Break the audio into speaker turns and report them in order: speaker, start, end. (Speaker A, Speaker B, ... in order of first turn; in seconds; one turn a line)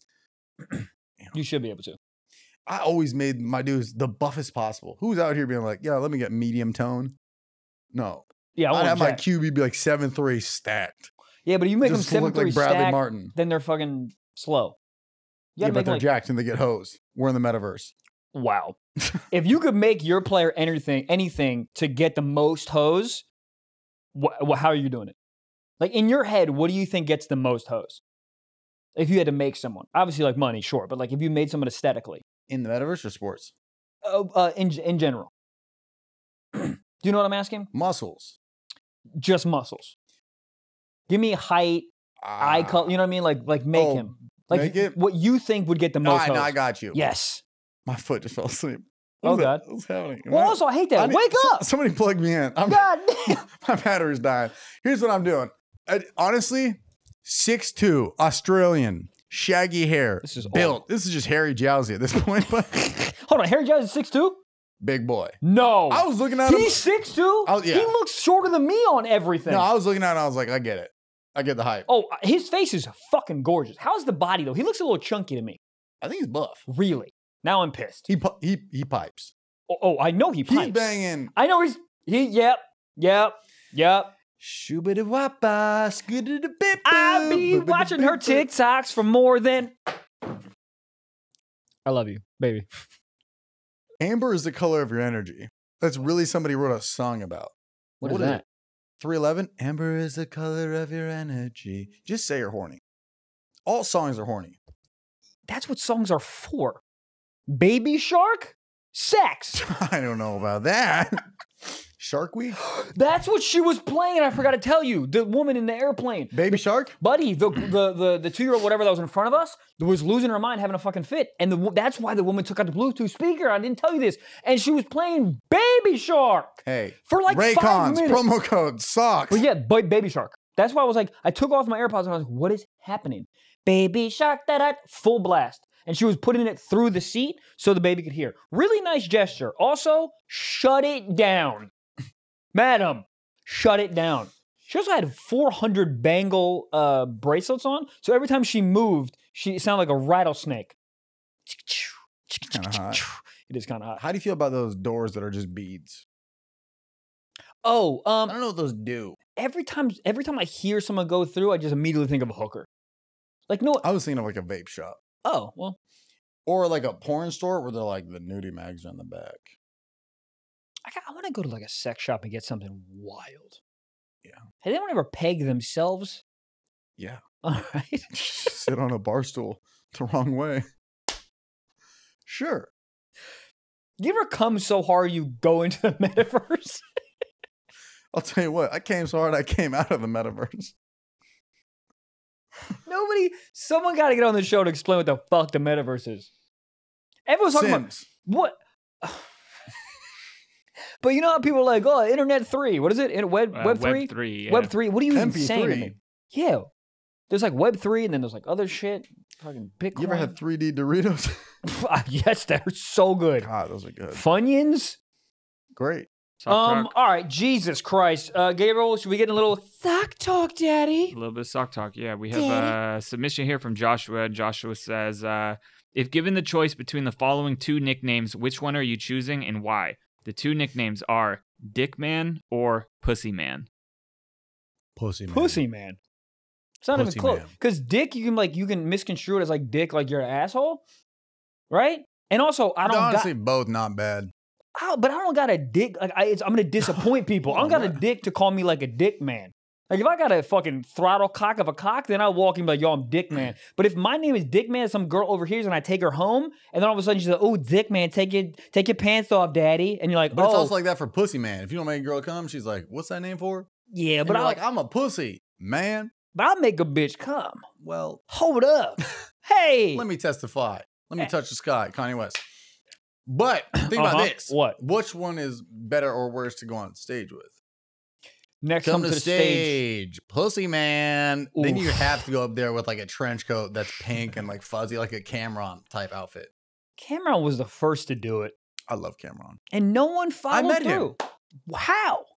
Speaker A: 0.7-2.0
Speaker B: 2.7-7.1
Speaker B: 7.9-11.1
Speaker A: 8.5-9.2
Speaker A: 11.4-14.8
Speaker B: 11.8-13.3
Speaker A: 15.6-16.1
Speaker B: 15.6-17.9
Speaker A: 18.3-18.8
Speaker A: 19.3-23.2
Speaker A: 24.1-25.1
Speaker A: 25.8-28.0
Speaker A: 28.9-32.2
Speaker B: 32.5-33.5
Speaker A: 34.0-35.3
Speaker A: 36.5-37.7
Speaker B: 37.7-38.4
Speaker A: 39.2-39.9
Speaker A: 41.1-47.4
Speaker B: 42.2-43.0
Speaker B: 43.7-45.0
Speaker B: 46.0-47.0
Speaker B: 47.9-62.8
Speaker A: 49.2-49.6
Speaker A: 50.3-51.6
Speaker A: 52.7-53.4
Speaker A: 60.2-60.8
Speaker A: 62.7-64.4
Speaker B: 64.8-66.8
Speaker A: 65.4-69.7
Speaker B: 67.4-67.9
Speaker B: 69.5-71.9
Speaker A: 71.9-75.6
Speaker B: 76.0-76.7
Speaker A: 76.7-78.1
Speaker B: 78.1-79.3
Speaker A: 79.7-84.1
Speaker B: 80.5-81.3
Speaker B: 84.4-88.5
Speaker A: 86.8-90.3
Speaker A: 91.8-92.9
Speaker B: 94.0-98.4
Speaker A: 98.0-98.4
Speaker B: 99.0-102.8
Speaker B: 103.7-104.6
Speaker A: 105.5-106.8
Speaker A: 107.5-109.6
Speaker B: 109.5-112.6
Speaker A: 112.6-128.2
Speaker B: 116.3-117.0
Speaker B: 126.6-129.4
Speaker A: 129.3-141.7
Speaker A: 142.5-150.8
Speaker A: 151.4-154.0
Speaker B: 152.5-153.0
Speaker B: 154.0-156.0
Speaker A: 157.6-158.3
Speaker B: 158.3-159.2
Speaker A: 159.4-162.7
Speaker A: 163.5-163.8
Speaker B: 163.8-165.0
Speaker A: 165.2-165.8
Speaker B: 166.4-169.5
Speaker A: 170.8-173.6
Speaker A: 174.6-176.2
Speaker A: 177.4-178.5
Speaker B: 178.1-180.6
Speaker B: 182.3-182.7
Speaker A: 184.0-186.8
Speaker B: 188.1-190.7
Speaker A: 192.8-196.3
Speaker A: 197.3-199.9
Speaker B: 197.5-198.1
Speaker A: 201.0-206.7
Speaker C: 203.5-204.7
Speaker B: 205.1-205.9
Speaker A: 207.3-210.3
Speaker B: 209.9-211.4
Speaker A: 211.6-213.5
Speaker B: 213.4-214.2
Speaker A: 214.1-215.0
Speaker B: 215.8-216.1
Speaker C: 216.4-216.9
Speaker A: 216.5-221.1
Speaker C: 221.1-233.7
Speaker A: 222.3-222.7
Speaker B: 234.9-235.6
Speaker A: 235.3-236.0
Speaker A: 236.8-240.8
Speaker B: 236.9-237.5
Speaker A: 241.7-243.3
Speaker B: 242.8-244.3
Speaker A: 244.7-260.7
Speaker B: 247.5-248.0
Speaker B: 260.3-263.7
Speaker A: 263.9-264.6
Speaker B: 264.2-266.1
Speaker A: 266.3-267.7
Speaker B: 267.8-268.2
Speaker A: 268.3-270.0
Speaker B: 269.9-272.4
Speaker B: 273.2-277.5
Speaker A: 273.9-274.8
Speaker A: 278.6-279.8
Speaker B: 278.8-286.5
Speaker A: 281.6-282.2
Speaker A: 287.0-288.5
Speaker B: 288.9-289.6
Speaker A: 289.7-292.3
Speaker B: 290.5-291.1